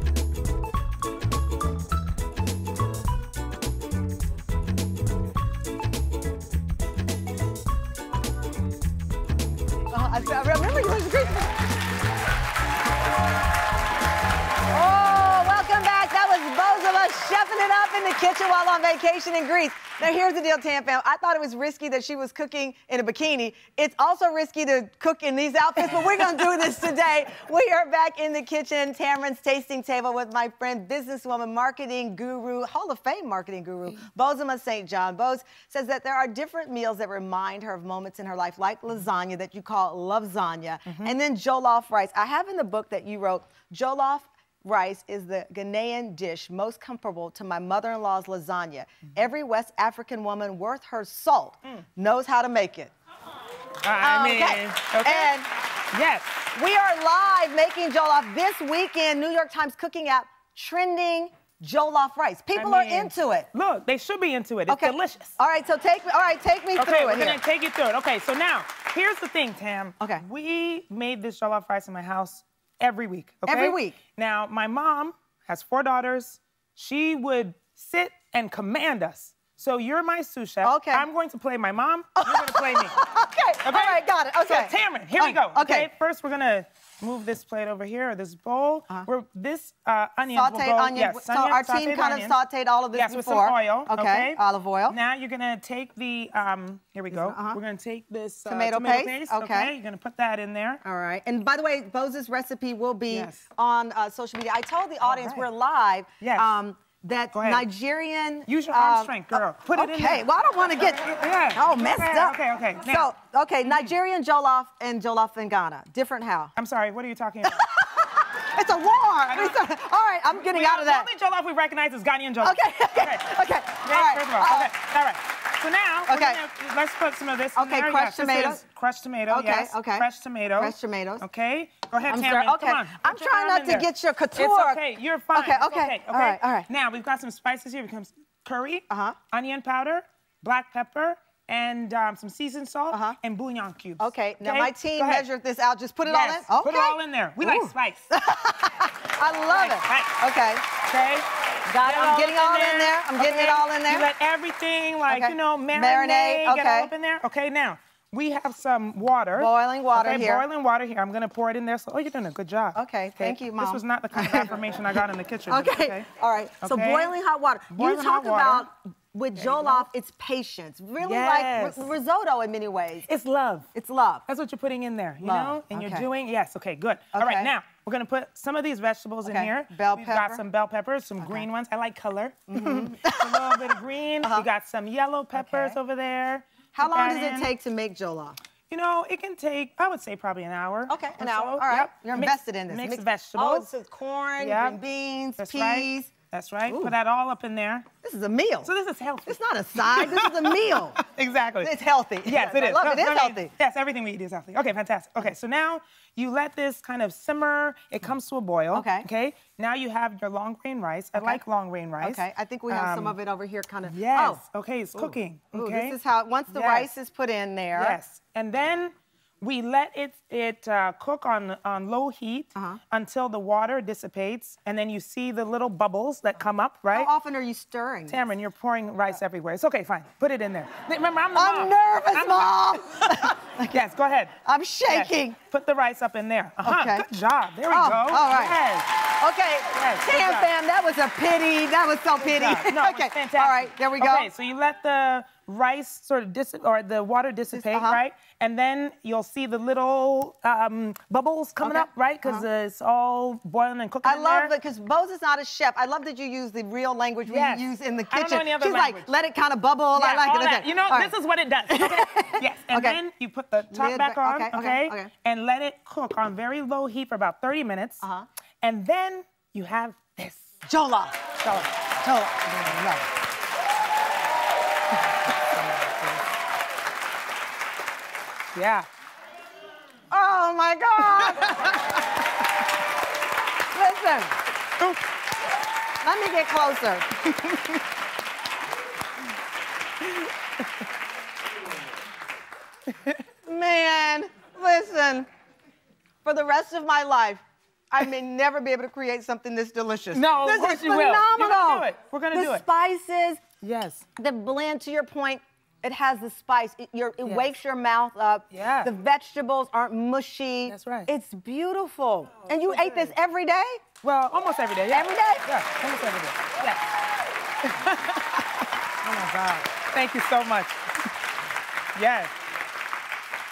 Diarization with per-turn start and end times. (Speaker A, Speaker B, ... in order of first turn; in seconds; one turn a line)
Speaker A: 9.9-11.7
Speaker A: 14.7-52.9
Speaker B: 40.9-41.1
Speaker B: 53.8-55.3
Speaker A: 54.0-55.5
Speaker B: 55.9-56.5
Speaker A: 56.5-63.5
Speaker B: 62.5-65.3
Speaker A: 64.7-67.4
Speaker B: 66.8-82.9
Speaker A: 73.4-74.0
Speaker A: 80.6-81.0
Speaker A: 82.2-85.9
Speaker B: 83.6-92.4
Speaker A: 90.3-95.0
Speaker B: 92.9-100.8
Speaker A: 97.1-97.6
Speaker A: 98.5-99.7
Speaker A: 100.8-116.5
Speaker B: 103.1-103.4
Speaker B: 105.0-105.5
Speaker B: 106.2-106.5
Speaker B: 107.3-107.7
Speaker B: 108.5-110.2
Speaker B: 110.8-113.1
Speaker B: 116.5-117.6
Speaker A: 117.4-121.1
Speaker B: 119.3-119.6
Speaker B: 120.3-145.2
Speaker A: 122.4-124.7
Speaker A: 126.1-126.4
Speaker A: 127.5-128.6
Speaker A: 129.3-131.2
Speaker A: 132.1-136.7
Speaker A: 138.9-139.2
Speaker A: 142.9-143.2
Speaker A: 144.0-150.7
Speaker B: 146.1-148.1
Speaker B: 149.5-150.2
Speaker B: 150.8-151.3
Speaker A: 151.7-154.1
Speaker B: 151.8-166.1
Speaker A: 155.1-156.9
Speaker A: 159.3-160.4
Speaker A: 162.7-164.5
Speaker A: 165.5-173.1
Speaker B: 166.6-167.1
Speaker B: 167.7-168.7
Speaker B: 169.3-169.9
Speaker B: 171.0-171.9
Speaker B: 173.1-173.7
Speaker A: 173.7-174.2
Speaker B: 174.3-187.5
Speaker A: 175.2-176.1
Speaker A: 177.1-177.5
Speaker A: 179.2-180.4
Speaker A: 181.2-181.4
Speaker A: 182.5-184.4
Speaker A: 185.3-185.8
Speaker A: 186.7-188.4
Speaker B: 188.7-193.7
Speaker A: 190.9-196.1
Speaker B: 194.4-194.8
Speaker B: 195.4-197.8
Speaker A: 198.0-198.7
Speaker B: 198.6-201.7
Speaker A: 199.3-201.0
Speaker A: 201.6-203.5
Speaker B: 202.2-213.2
Speaker A: 208.7-209.1
Speaker A: 211.1-211.4
Speaker A: 212.0-214.4
Speaker B: 213.8-216.0
Speaker A: 214.9-218.0
Speaker B: 216.5-216.9
Speaker B: 217.7-227.1
Speaker A: 226.9-228.2
Speaker B: 228.1-234.3
Speaker A: 231.3-233.7
Speaker A: 234.4-235.4
Speaker B: 234.9-238.9
Speaker A: 236.6-237.1
Speaker A: 237.7-244.3
Speaker B: 239.7-240.5
Speaker B: 242.2-254.5
Speaker A: 247.5-248.0
Speaker A: 251.6-252.4
Speaker A: 254.0-261.1
Speaker B: 257.3-259.1
Speaker B: 259.9-268.0
Speaker A: 261.7-263.0
Speaker A: 263.7-265.1
Speaker B: 268.6-270.5
Speaker A: 270.6-271.3
Speaker B: 271.4-271.7
Speaker A: 272.0-273.1
Speaker B: 275.5-276.0
Speaker B: 278.5-278.9
Speaker A: 280.1-281.8
Speaker B: 281.2-282.0
Speaker A: 283.7-284.4
Speaker A: 286.0-287.6
Speaker A: 293.4-295.3
Speaker A: 296.2-303.4
Speaker B: 300.1-302.6
Speaker B: 303.6-304.0
Speaker A: 304.1-313.8
Speaker B: 308.5-308.9
Speaker B: 310.7-311.1
Speaker B: 312.6-313.1
Speaker B: 314.0-316.8
Speaker A: 314.9-315.5
Speaker B: 317.6-320.8
Speaker B: 321.9-322.3